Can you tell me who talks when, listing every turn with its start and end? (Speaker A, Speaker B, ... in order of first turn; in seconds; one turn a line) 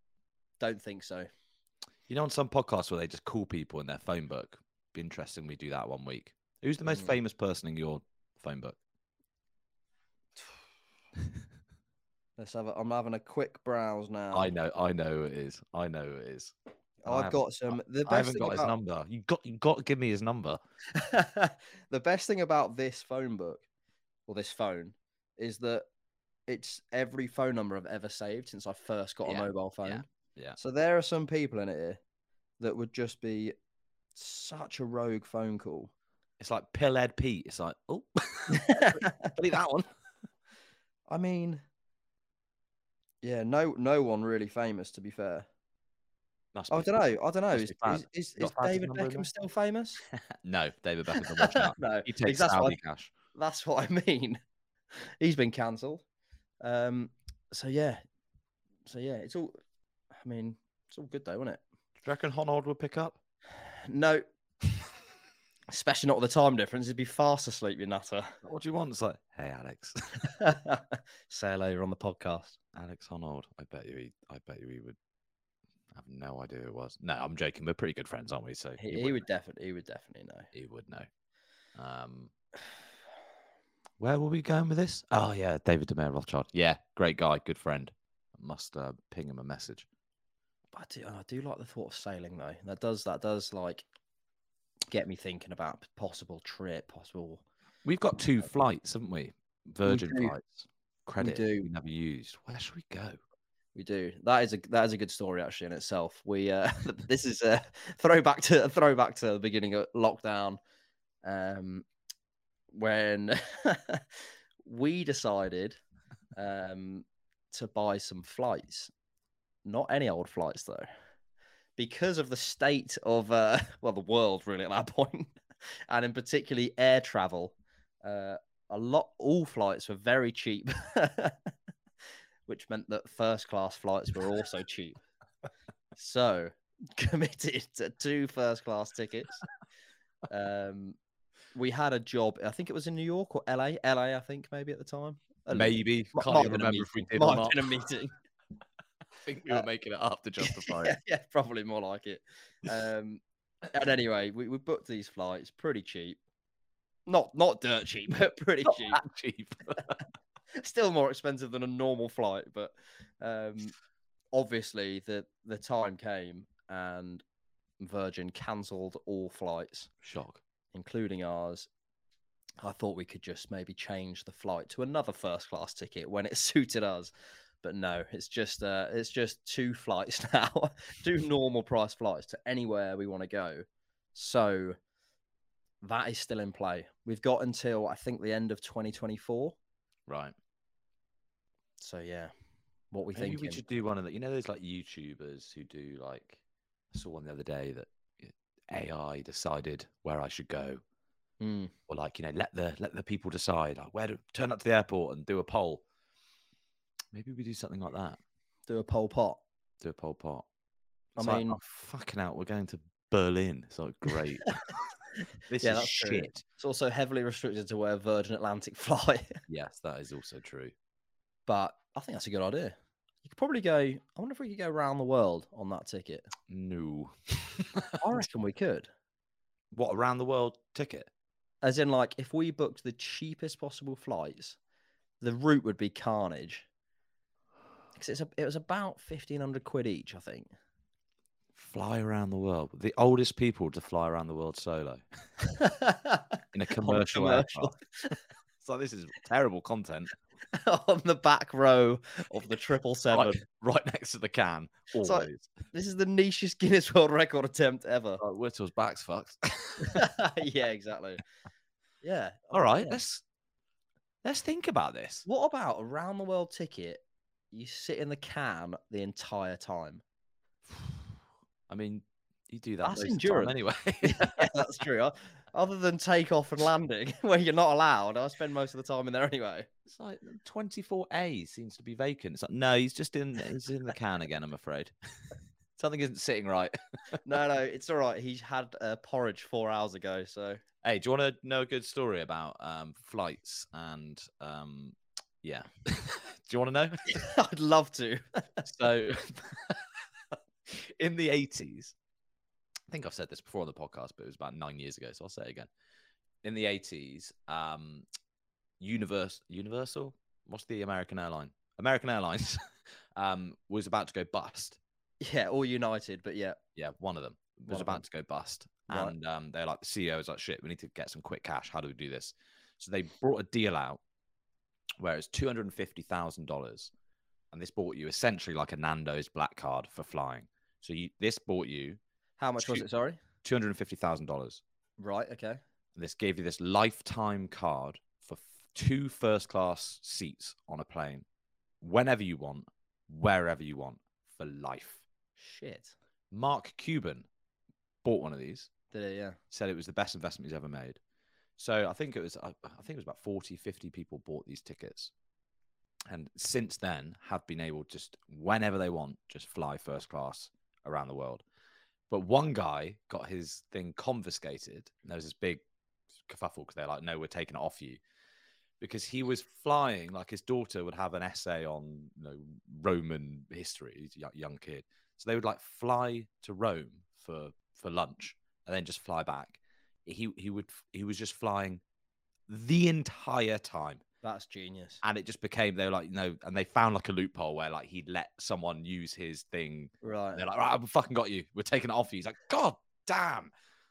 Speaker A: 0.6-1.3
Speaker B: 2.1-8.8
Speaker A: 6.9-7.2
Speaker A: 12.4-14.5
Speaker B: 14.3-16.5
Speaker A: 17.0-18.8
Speaker B: 17.1-20.6
Speaker A: 20.9-23.6
Speaker A: 24.3-25.9
Speaker A: 26.5-30.1
Speaker B: 29.2-30.6
Speaker A: 30.6-32.0
Speaker A: 32.6-33.5
Speaker A: 34.1-35.9
Speaker B: 36.4-39.9
Speaker A: 38.5-39.3
Speaker A: 41.1-41.6
Speaker A: 43.2-45.5
Speaker B: 46.5-49.3
Speaker A: 46.7-50.0
Speaker B: 50.4-53.1
Speaker A: 51.2-52.8
Speaker A: 53.3-54.4
Speaker A: 55.2-56.0
Speaker A: 56.6-58.0
Speaker A: 58.9-59.6
Speaker A: 60.2-61.6
Speaker B: 62.0-63.2
Speaker A: 63.9-64.2
Speaker A: 65.7-68.3
Speaker B: 68.4-70.3
Speaker A: 70.3-72.6
Speaker B: 72.7-75.0
Speaker B: 75.9-79.2
Speaker A: 78.8-80.5
Speaker B: 80.5-81.1
Speaker B: 81.8-82.3
Speaker B: 84.0-89.9
Speaker A: 90.7-93.8
Speaker A: 94.9-97.4
Speaker B: 97.8-103.2
Speaker A: 99.8-100.3
Speaker A: 101.2-101.7
Speaker A: 103.8-110.6
Speaker A: 111.2-111.9
Speaker A: 112.7-114.0
Speaker A: 114.6-115.8
Speaker A: 116.4-118.9
Speaker A: 119.7-120.9
Speaker A: 121.8-125.3
Speaker A: 125.9-131.5
Speaker A: 132.5-135.0
Speaker A: 136.0-139.4
Speaker A: 140.3-141.0
Speaker A: 141.5-148.2
Speaker B: 145.5-147.7
Speaker B: 149.2-151.0
Speaker A: 150.4-156.2
Speaker A: 157.1-159.0
Speaker B: 158.7-160.0
Speaker A: 160.6-163.8
Speaker A: 164.3-167.2
Speaker A: 167.8-169.9
Speaker B: 170.0-170.4
Speaker A: 170.7-171.7
Speaker A: 172.6-184.8
Speaker A: 185.8-189.6
Speaker B: 190.1-190.3
Speaker A: 191.8-192.3
Speaker A: 192.9-193.6
Speaker B: 193.2-196.4
Speaker B: 196.9-200.8
Speaker A: 201.4-201.7
Speaker B: 201.9-205.8
Speaker B: 207.1-208.2
Speaker A: 208.7-209.4
Speaker B: 209.8-210.4
Speaker A: 211.2-211.6
Speaker B: 211.2-214.7
Speaker B: 215.5-216.4
Speaker A: 215.6-219.4
Speaker B: 219.5-220.7
Speaker A: 221.5-226.3
Speaker B: 226.5-228.2
Speaker A: 228.0-228.9
Speaker B: 229.7-231.1
Speaker A: 231.6-234.6
Speaker A: 235.2-236.7
Speaker A: 237.9-240.5
Speaker B: 241.6-245.0
Speaker A: 245.5-248.2
Speaker B: 246.5-247.8
Speaker B: 248.6-250.1
Speaker A: 250.5-253.4
Speaker B: 253.1-255.5
Speaker A: 255.0-258.2
Speaker B: 258.2-260.1
Speaker A: 259.8-261.2
Speaker A: 262.0-263.0
Speaker B: 262.5-263.2
Speaker B: 264.2-265.3
Speaker A: 265.3-270.0
Speaker B: 271.7-274.5
Speaker A: 272.8-279.7
Speaker B: 279.9-284.9
Speaker B: 285.8-286.8
Speaker A: 287.2-290.6
Speaker B: 290.8-297.2
Speaker A: 297.1-298.7
Speaker B: 298.7-299.9
Speaker B: 300.7-301.9
Speaker B: 302.9-305.7
Speaker B: 306.4-308.1
Speaker B: 308.8-312.6
Speaker B: 313.1-314.8
Speaker A: 315.2-316.6
Speaker B: 316.8-324.0
Speaker A: 317.7-318.0
Speaker A: 318.9-319.1
Speaker B: 325.0-326.9
Speaker B: 327.5-332.0
Speaker A: 332.4-333.2
Speaker B: 332.6-332.9
Speaker B: 333.4-334.6
Speaker A: 335.0-335.6
Speaker B: 336.0-341.2
Speaker B: 341.8-345.0
Speaker A: 345.4-345.9
Speaker B: 346.3-347.3
Speaker B: 348.0-348.7
Speaker A: 348.9-349.4
Speaker B: 349.5-351.0
Speaker B: 351.6-355.1
Speaker B: 356.1-361.4
Speaker B: 362.1-365.6
Speaker B: 366.2-368.0
Speaker B: 368.8-381.8
Speaker B: 382.5-384.0
Speaker A: 384.2-385.0
Speaker B: 385.0-393.5
Speaker A: 390.0-390.4